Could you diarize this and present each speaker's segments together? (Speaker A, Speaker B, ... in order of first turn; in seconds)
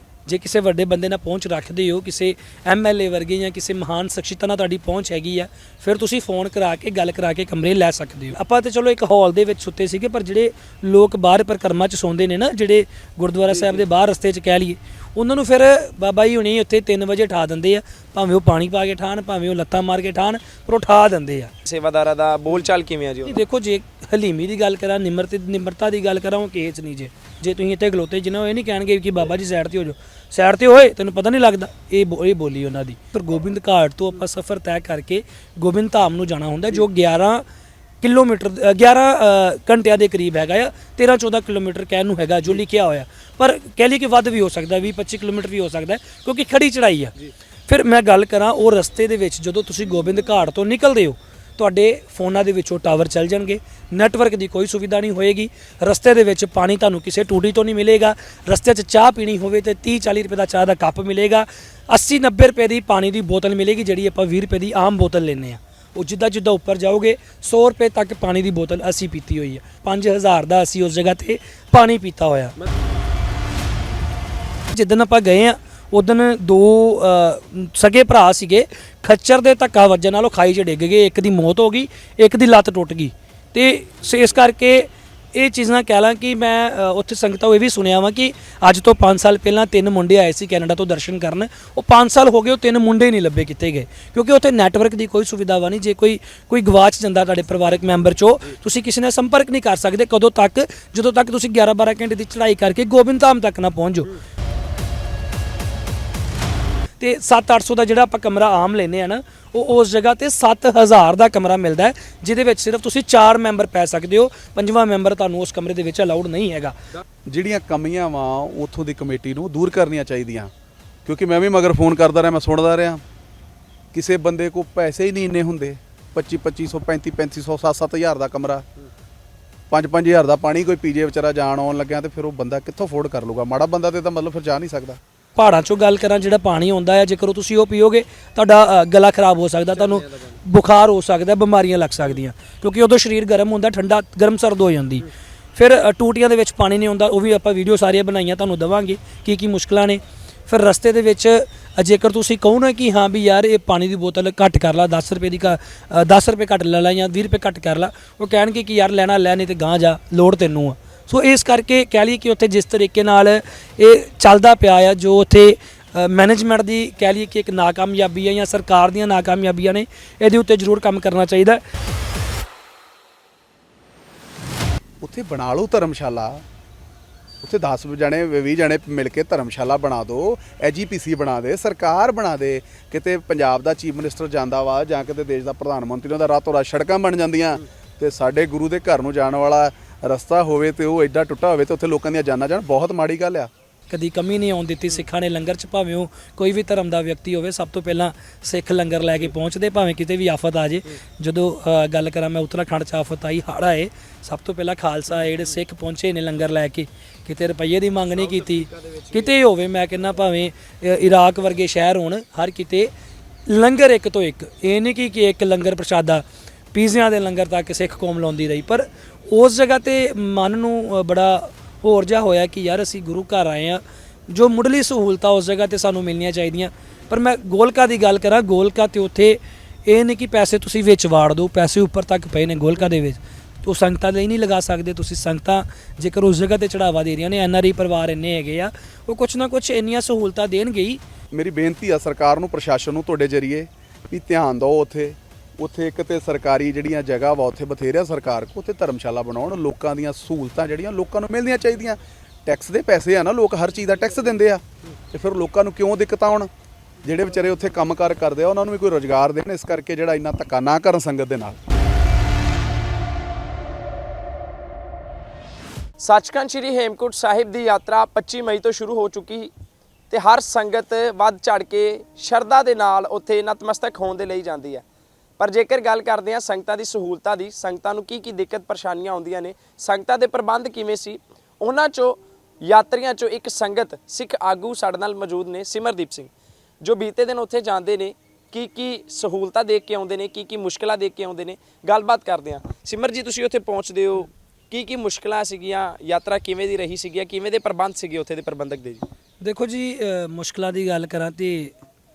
Speaker A: 0.3-21.5, 23.3-37.5, 38.0-47.1, 47.7-72.5, 74.7-104.1, 107.0-116.8, 135.4-171.6, 193.9-212.9, 213.5-241.0, 299.4-301.8
Speaker B: 13.6-13.8, 21.6-23.4, 139.8-140.4, 208.2-209.3, 266.0-269.5, 270.1-274.8, 275.4-286.3, 286.8-299.1
Speaker C: 117.3-120.5, 121.0-123.0, 123.9-128.7, 129.7-135.0, 175.0-176.4, 177.4-193.5, 241.3-256.5, 257.0-261.6